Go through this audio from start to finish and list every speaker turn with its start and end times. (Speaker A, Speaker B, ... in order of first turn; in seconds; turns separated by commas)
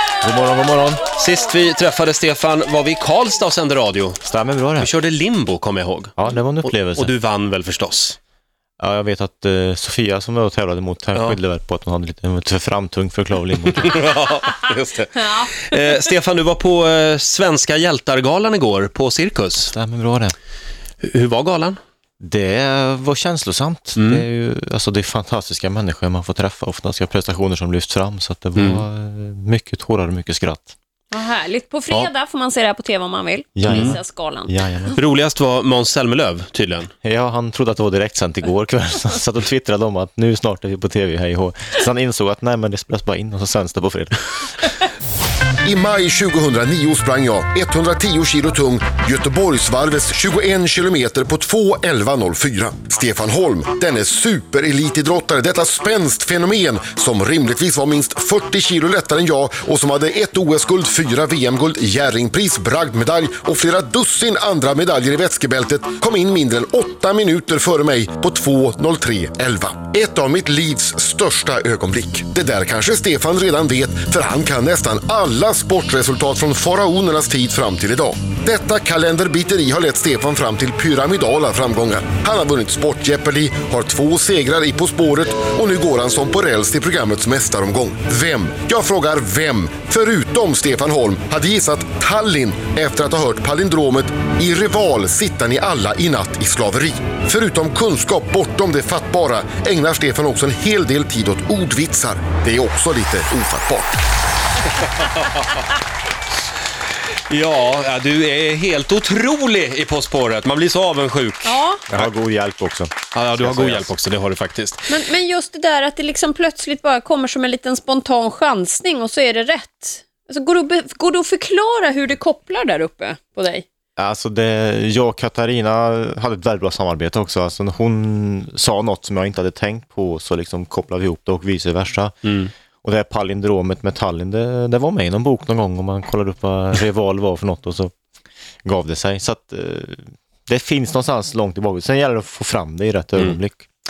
Speaker A: 0.2-1.0, Speaker B: 1.2-4.2, Speaker A: 4.2-4.9, Speaker B: 4.8-8.2, Speaker A: 6.2-7.1, Speaker A: 8.8-13.9, Speaker B: 11.1-11.4, Speaker B: 13.7-19.7, Speaker C: 15.2-15.6, Speaker A: 19.6-20.4, Speaker B: 21.0-21.8, Speaker A: 22.2-30.7, Speaker B: 24.0-24.2, Speaker B: 28.6-28.8, Speaker C: 31.1-34.5, Speaker A: 33.5-35.0, Speaker B: 33.6-34.0, Speaker B: 35.0-36.9, Speaker A: 37.0-44.6, Speaker D: 45.6-103.9, Speaker B: 105.0-105.4, Speaker B: 107.3-112.1, Speaker C: 111.4-111.8, Speaker A: 111.9-113.9, Speaker B: 113.1-114.9, Speaker C: 114.9-123.6, Speaker A: 124.0-132.2, Speaker B: 132.2-132.5, Speaker A: 132.8-137.9, Speaker A: 138.6-143.7